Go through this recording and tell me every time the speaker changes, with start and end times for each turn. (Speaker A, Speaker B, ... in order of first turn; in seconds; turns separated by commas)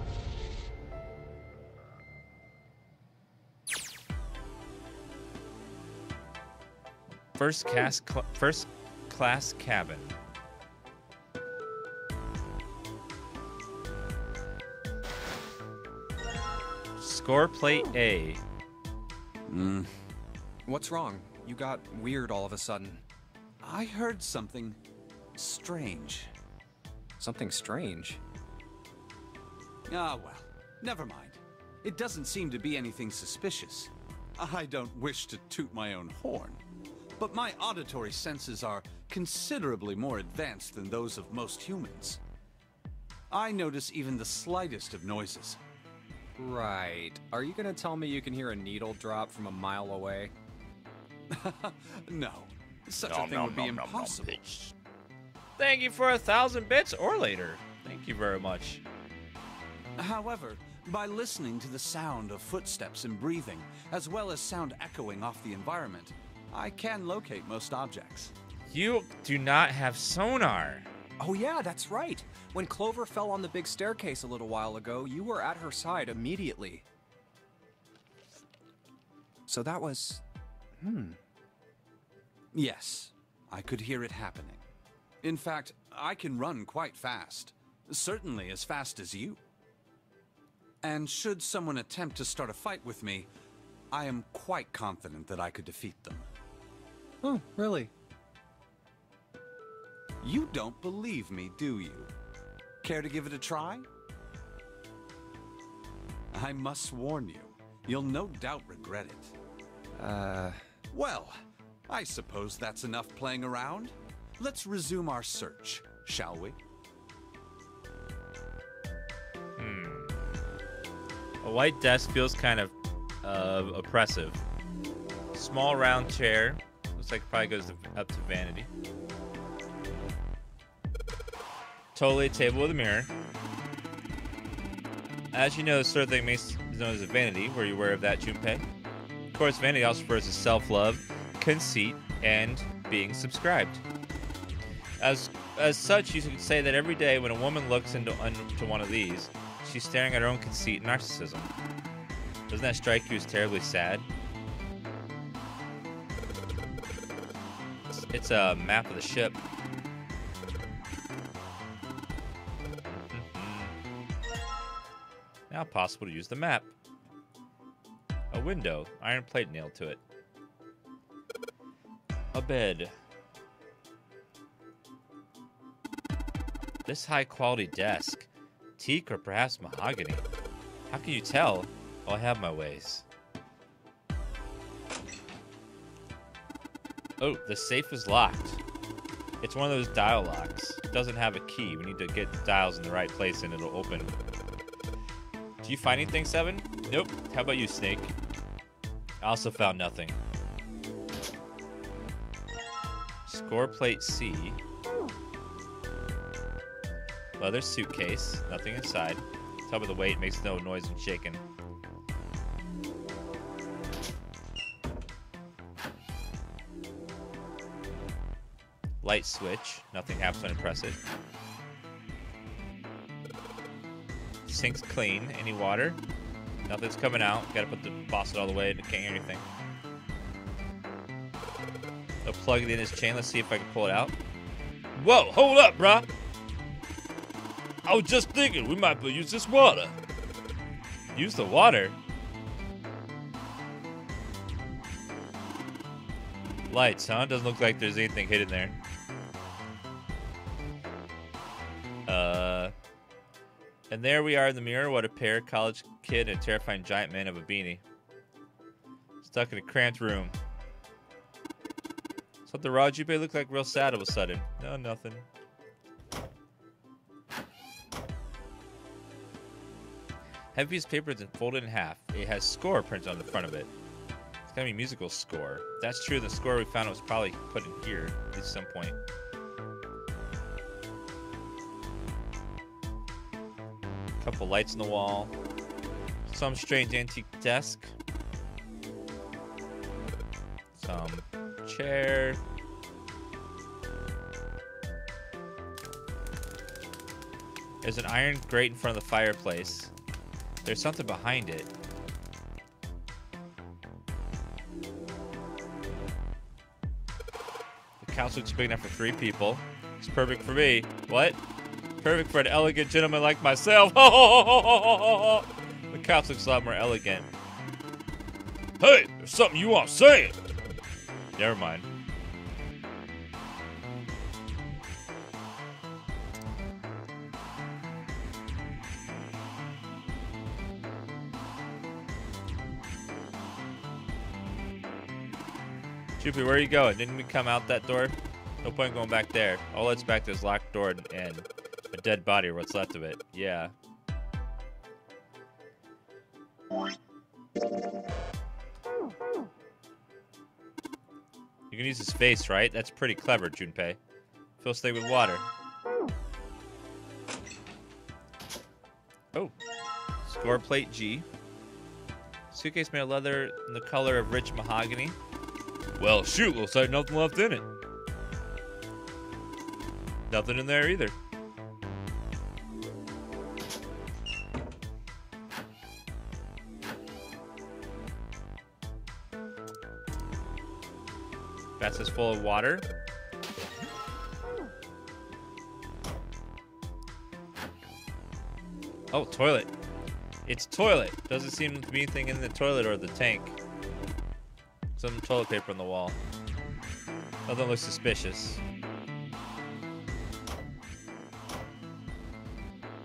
Speaker A: 7.4-10.2, Speaker A: 17.0-18.4, Speaker B: 19.5-19.9, Speaker C: 20.7-23.0, Speaker B: 23.6-24.8, Speaker B: 25.4-26.3, Speaker C: 27.2-28.2, Speaker B: 29.9-36.6, Speaker B: 37.2-42.2, Speaker B: 43.3-45.6, Speaker C: 46.4-50.3, Speaker B: 51.3-54.5, Speaker A: 53.0-54.7, Speaker A: 55.6-58.8, Speaker B: 60.0-68.3, Speaker A: 68.7-70.9, Speaker C: 71.2-76.8, Speaker C: 79.5-80.2, Speaker C: 80.8-81.2, Speaker B: 82.5-84.7, Speaker B: 85.2-89.4, Speaker B: 90.8-93.3, Speaker B: 93.9-96.3, Speaker C: 97.2-97.9, Speaker B: 100.2-102.1, Speaker B: 102.8-103.9, Speaker B: 106.3-109.3, Speaker C: 110.0-110.7, Speaker B: 110.9-116.6, Speaker A: 119.6-120.2, Speaker A: 121.4-124.4, Speaker A: 125.3-128.7, Speaker A: 131.9-133.1, Speaker A: 135.3-138.7, Speaker A: 139.3-143.8, Speaker A: 145.0-151.5, Speaker A: 152.5-154.1, Speaker A: 158.1-159.4, Speaker A: 162.9-163.7, Speaker A: 165.5-166.7, Speaker A: 168.3-170.0, Speaker A: 172.3-172.9, Speaker A: 176.9-180.2, Speaker A: 180.9-183.1, Speaker A: 187.2-188.6, Speaker A: 189.4-194.1, Speaker A: 195.6-198.1, Speaker A: 199.2-200.2, Speaker A: 203.3-204.6, Speaker A: 207.4-211.4, Speaker A: 219.0-221.0, Speaker A: 224.5-226.0, Speaker A: 226.7-229.4, Speaker A: 232.2-234.2, Speaker A: 235.0-236.1, Speaker A: 237.9-239.9, Speaker A: 241.1-242.0, Speaker A: 246.7-248.8, Speaker A: 252.1-252.7, Speaker A: 253.9-257.8, Speaker A: 259.2-260.4, Speaker A: 262.5-265.3, Speaker A: 270.5-273.7, Speaker A: 274.5-279.0, Speaker A: 284.2-285.3, Speaker A: 286.3-287.9, Speaker A: 290.8-292.4, Speaker A: 297.8-299.9, Speaker A: 300.6-301.7, Speaker A: 308.0-311.4, Speaker A: 312.0-317.3, Speaker A: 318.8-320.4, Speaker A: 321.4-321.9, Speaker A: 336.2-343.7, Speaker A: 351.7-354.0, Speaker A: 354.6-355.5, Speaker A: 360.2-361.3, Speaker A: 362.5-365.2, Speaker A: 366.0-367.7, Speaker A: 370.3-371.1, Speaker A: 381.8-382.9, Speaker A: 389.1-389.7, Speaker A: 390.5-393.6, Speaker A: 395.0-396.2, Speaker A: 397.5-398.6